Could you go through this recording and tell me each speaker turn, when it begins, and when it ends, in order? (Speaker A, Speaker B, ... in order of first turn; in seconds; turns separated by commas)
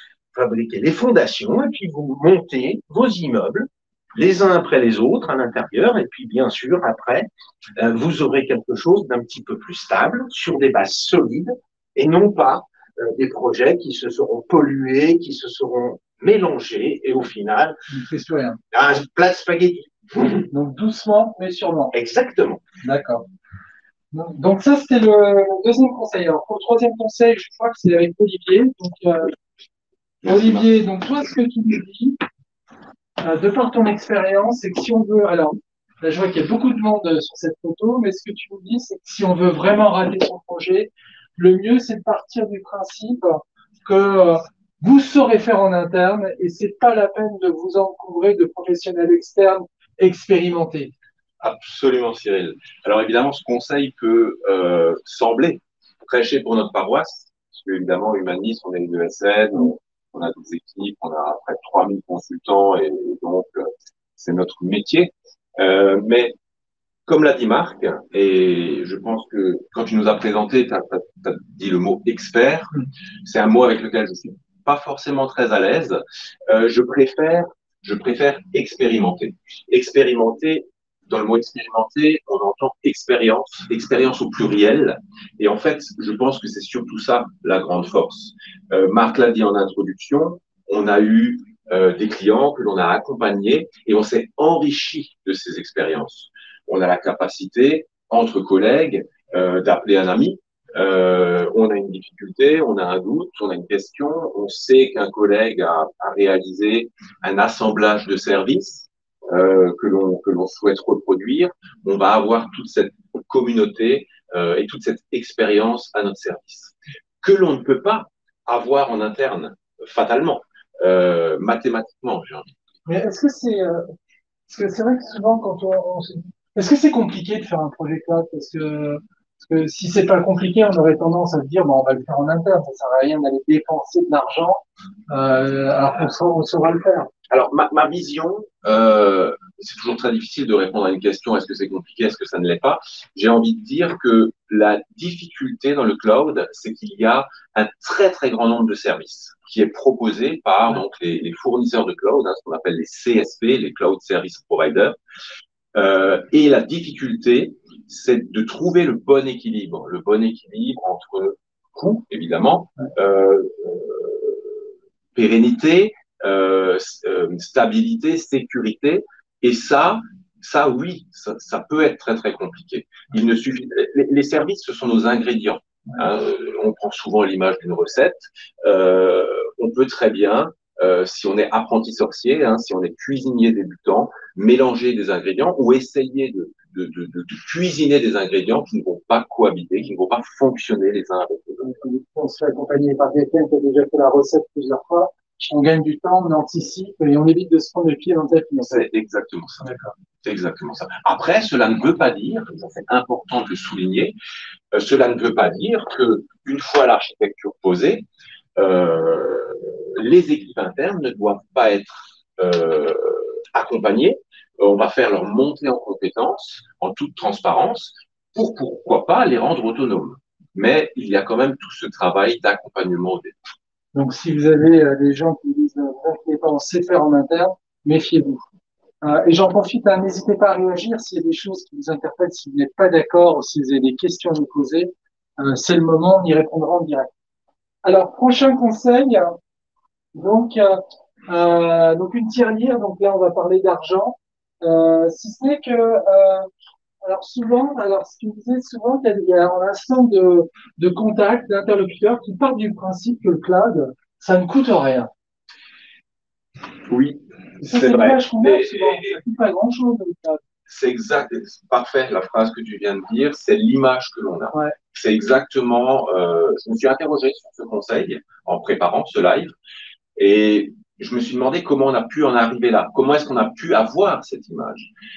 Speaker A: 0.3-7.3, Speaker A: 7.8-17.8, Speaker B: 17.9-18.6, Speaker A: 18.7-20.4, Speaker B: 20.5-21.9, Speaker A: 21.9-22.6, Speaker B: 22.8-23.2, Speaker B: 24.1-29.3, Speaker C: 30.2-30.6, Speaker B: 30.2-32.2, Speaker B: 33.2-50.9, Speaker C: 51.4-66.3, Speaker C: 67.1-122.5, Speaker B: 122.8-123.9, Speaker B: 124.5-137.1, Speaker C: 137.3-154.9, Speaker C: 155.7-164.5, Speaker C: 165.1-191.7, Speaker B: 191.6-198.8, Speaker C: 198.6-199.7, Speaker B: 199.6-199.9, Speaker C: 200.2-204.1, Speaker C: 204.7-223.3, Speaker B: 223.9-228.4, Speaker B: 229.0-237.1, Speaker B: 237.8-239.3, Speaker B: 240.1-246.5, Speaker B: 247.0-255.1, Speaker C: 256.9-259.2, Speaker B: 257.6-260.4, Speaker C: 260.7-269.5, Speaker C: 270.1-274.9